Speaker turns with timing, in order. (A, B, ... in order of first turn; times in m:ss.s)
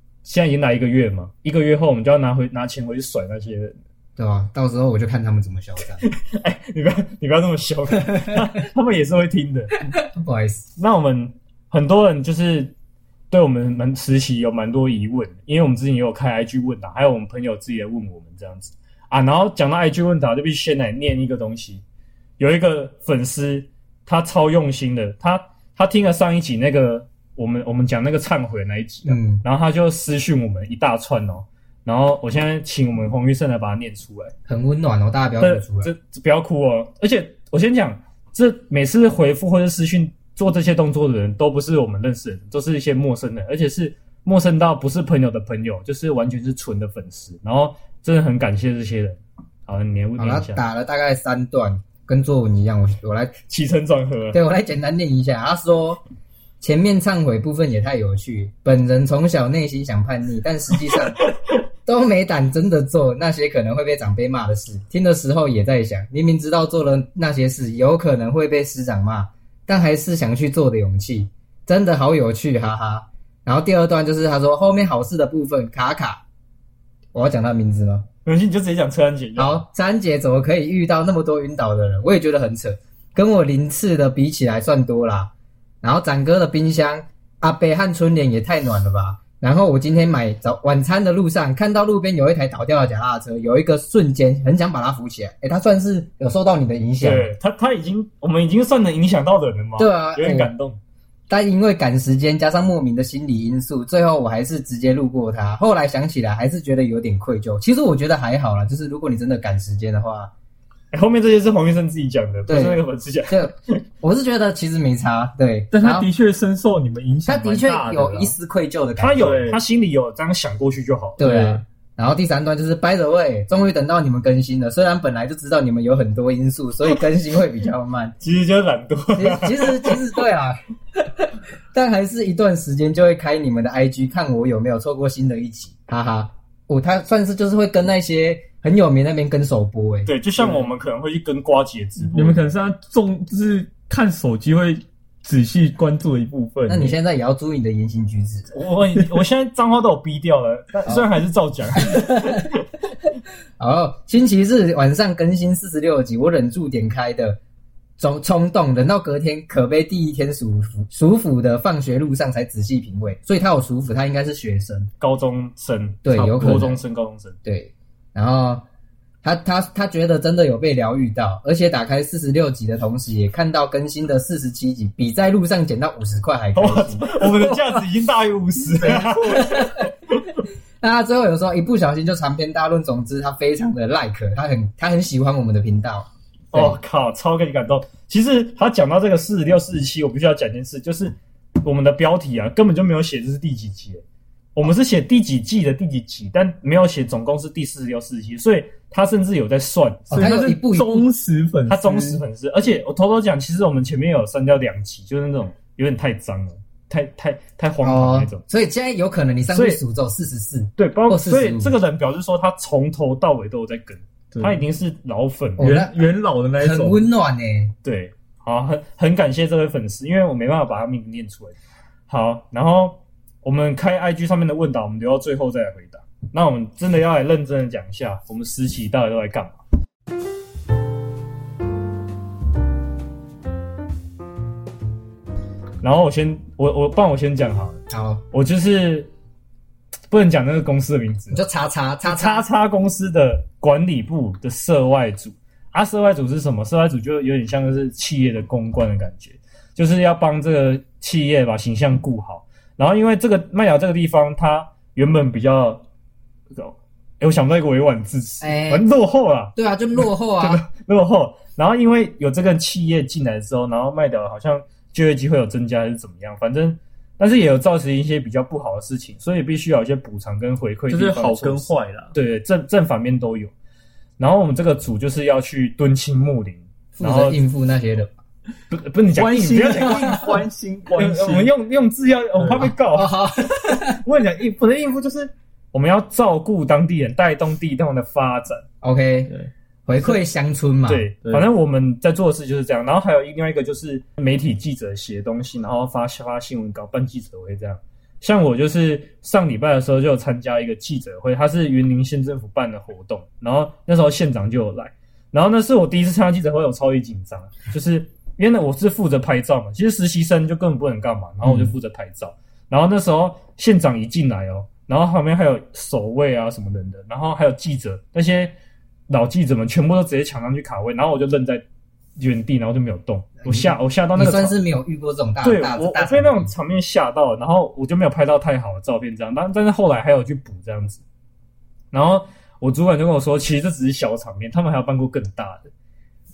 0:00.2-0:03.8 A
0:04.2-0:06.0 B
0:06.0-0:09.8 A
0:10.0-0:10.7 B
0:10.8-0:12.7 A
0:13.3-0:21.8 A
0:22.4-0:34.3 A
0:29.0-0:29.4 B
0:34.5-0:35.9 B
0:35.4-0:50.6 A
0:50.2-0:53.3 B
0:53.5-0:54.4 A
0:54.3-0:56.0 B
0:56.6-1:01.2 B
1:01.8-1:16.2 B
1:17.1-1:18.0 B
1:18.2-1:19.6 A
1:19.4-1:25.3 B
1:25.8-1:37.3 B
1:37.0-1:40.8 A
1:39.8-1:40.5 B
1:41.3-1:50.3 B
1:50.9-1:53.8 A
1:52.5-1:56.0 B
1:55.7-1:58.4 C
1:57.2-1:59.4 B
1:59.0-2:01.2 A
1:59.2-1:59.6 C
2:01.2-2:08.1 B
2:01.2-2:01.6 C
2:08.2-2:10.0 A
2:09.2-2:20.1 B
2:20.0-2:22.4 A
2:22.1-2:26.9 C
2:26.7-2:28.5 B
2:28.5-2:32.6 A
2:31.7-2:32.5 B
2:33.6-2:37.4 B
2:38.0-2:44.9 B
2:45.0-2:47.4 A
2:46.0-2:46.8 B
2:47.4-2:48.6 B
2:49.2-2:57.1 B
2:56.5-2:59.7 A
2:57.1-2:57.8 C
2:58.7-2:59.6 C
2:59.3-2:59.9 B
3:00.8-3:06.8 B
3:06.5-3:14.0 A
3:14.5-3:20.2 A
3:20.1-3:21.0 B
3:20.1-3:22.2 C
3:21.7-3:28.4 A
3:27.8-3:31.7 B
3:29.5-3:29.8 A
3:30.8-3:35.7 A
3:34.3-3:34.6 C
3:35.6-3:35.9 B
3:35.6-3:37.0 C
3:36.6-3:37.7 B
3:37.8-3:41.5 A
3:42.1-3:49.6 A
3:55.8-3:57.8 A
3:57.9-3:58.2 B
3:58.3-3:59.1 A
4:00.1-4:01.4 A
4:01.3-4:02.5 B
4:02.0-4:15.8 A
4:16.6-4:33.5 A
4:18.4-4:18.9 B
4:19.5-4:20.6 B
4:30.9-4:32.1 C
4:34.2-4:37.4 A
4:37.0-4:38.2 B
4:38.7-4:40.3 A
4:39.2-4:41.5 C
4:41.0-4:43.1 A
4:42.4-4:42.7 C
4:42.6-4:44.0 B
4:44.0-4:48.6 A
4:48.8-4:49.3 B
4:49.9-4:51.1 B
4:50.9-5:18.5 A
5:11.4-5:11.7 C
5:19.1-5:21.6 A
5:22.2-5:24.6 A
5:23.4-5:26.5 B
5:25.4-5:31.0 A
5:31.9-5:35.7 A